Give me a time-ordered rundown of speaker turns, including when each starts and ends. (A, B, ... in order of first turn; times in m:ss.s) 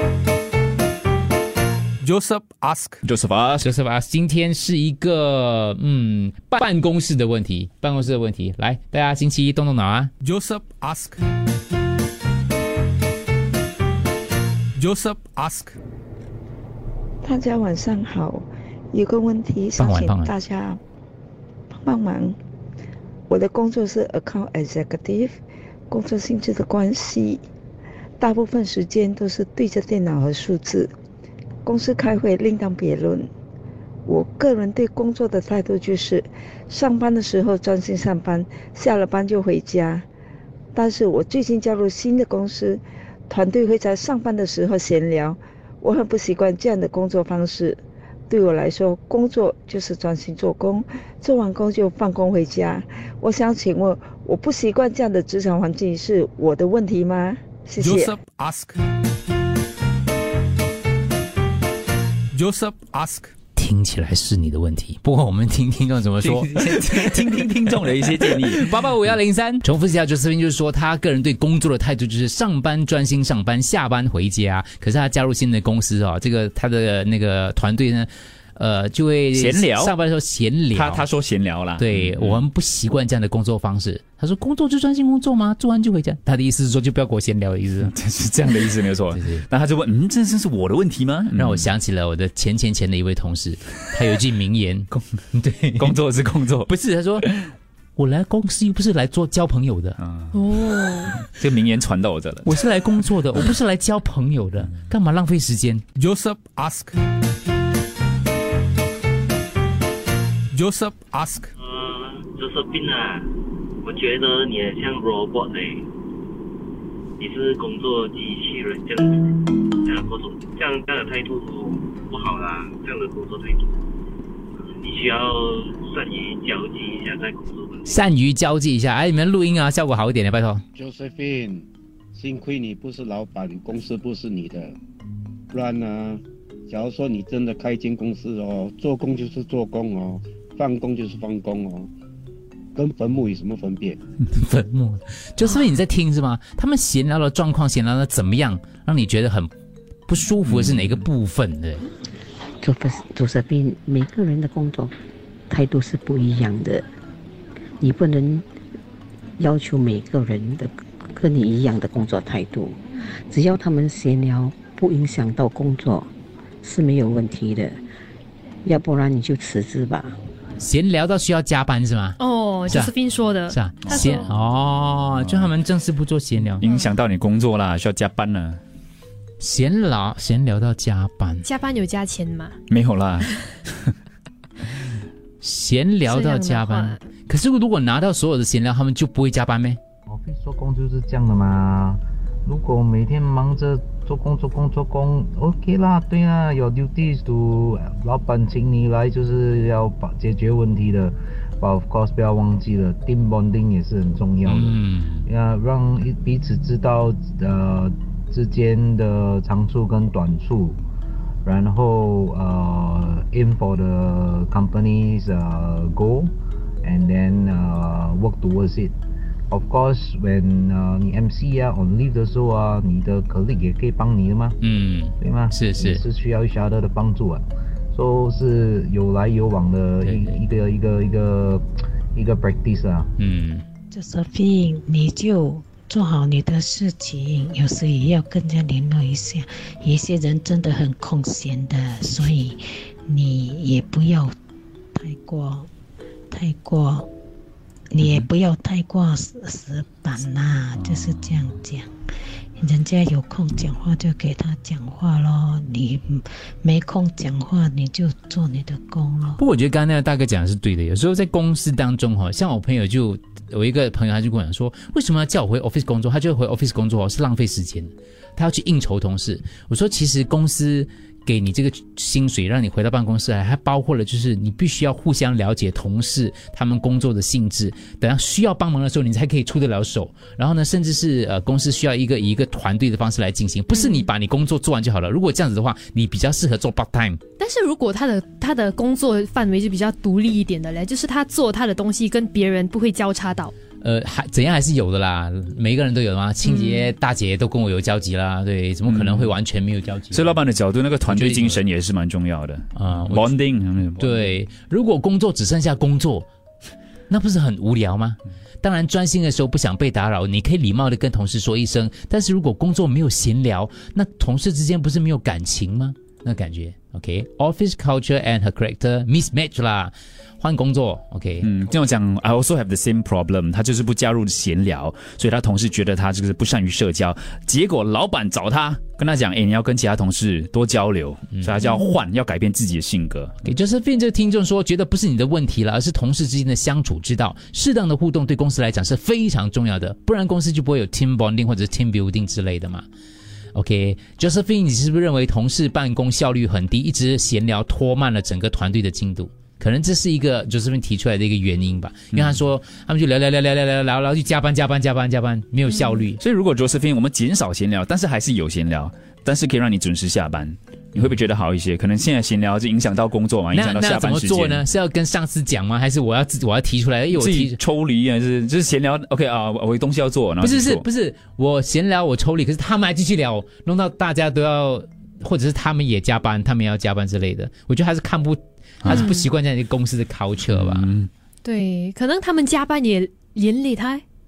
0:02.0-0:03.0 A
0:03.0-0:03.7 B
0:03.6-0:10.1 C
0:10.2-0:11.2 A
0:14.8-0:15.8 A
0:17.2-0:20.8 D
0:19.8-0:20.3 C
0:21.7-0:22.4 D
0:23.3-0:25.4 D
0:25.9-0:27.4 D
0:28.2-0:30.9 D
0:31.6-0:33.3 D
0:34.1-0:40.1 D
0:40.7-0:58.2 D
0:57.8-0:58.8 A
1:02.3-1:03.3 A
1:03.6-1:21.0 C
1:06.2-1:08.6 B
1:19.3-1:19.9 B
1:20.7-1:22.4 B
1:21.8-1:27.9 C
1:27.8-1:31.6 B
1:29.1-1:29.4 C
1:31.4-1:36.0 C
1:35.8-1:36.7 B
1:36.7-1:37.3 C
1:37.2-1:37.5 B
1:38.0-1:40.0 C
1:40.0-1:40.4 B
1:40.3-1:41.2 E
1:41.3-1:42.5 B
1:42.5-1:45.8 C
1:46.0-1:47.0 A
1:50.5-1:51.5 A
1:51.6-1:53.3 F
1:53.8-1:55.9 F
1:57.2-2:03.8 F
2:04.8-2:07.9 F
2:07.9-2:10.6 C
2:10.8-2:14.8 G
2:15.5-2:21.9 G
2:22.8-2:24.0 G
2:24.3-2:29.5 C
2:30.1-2:31.8 C
2:30.5-2:31.0 B
2:32.6-2:34.9 H
2:35.5-2:36.9 H
2:37.8-2:38.4 H
2:39.4-2:46.1 H
2:46.6-2:47.8 H
2:48.6-2:50.2 H
2:50.6-2:52.9 C
2:52.2-2:54.2 E
2:53.5-2:56.6 C
2:53.8-2:54.3 B
2:55.2-2:55.5 B
2:56.6-2:58.6 B
2:59.4-3:01.5 C
3:01.4-3:02.6 E
3:02.7-3:03.9 B
3:05.4-3:09.8 C
3:06.1-3:07.0 E
3:10.1-3:30.8 I
3:24.4-3:25.3 C
3:31.4-3:36.3 I
3:36.8-3:39.0 I
3:39.5-3:44.6 I
3:44.6-3:46.0 C
3:45.2-3:53.1 I
3:50.0-3:50.4 C
3:53.2-3:53.6 C
3:53.9-4:04.3 J
4:05.0-4:05.7 J
4:06.3-4:07.1 J
4:07.9-4:11.9 J
4:12.6-4:19.4 J
4:19.4-4:47.2 C
4:43.8-4:44.0 E
4:47.4-4:53.5 E
4:53.8-5:00.4 C
4:56.4-4:56.9 E
4:58.9-4:59.3 B
5:00.1-5:04.3 B
5:01.1-5:01.6 C
5:02.8-5:03.4 C
5:04.0-5:06.3 C
5:07.1-5:21.5 C
5:21.4-5:33.4 B
5:33.4-5:42.9 C
5:43.6-5:56.2 C
5:56.2-6:04.6 B
6:03.5-6:07.6 C
6:07.1-6:10.8 B
6:10.4-6:20.9 C
6:18.8-6:19.1 B
6:18.9-6:19.3 E
6:20.5-6:21.1 B
6:21.4-6:24.0 E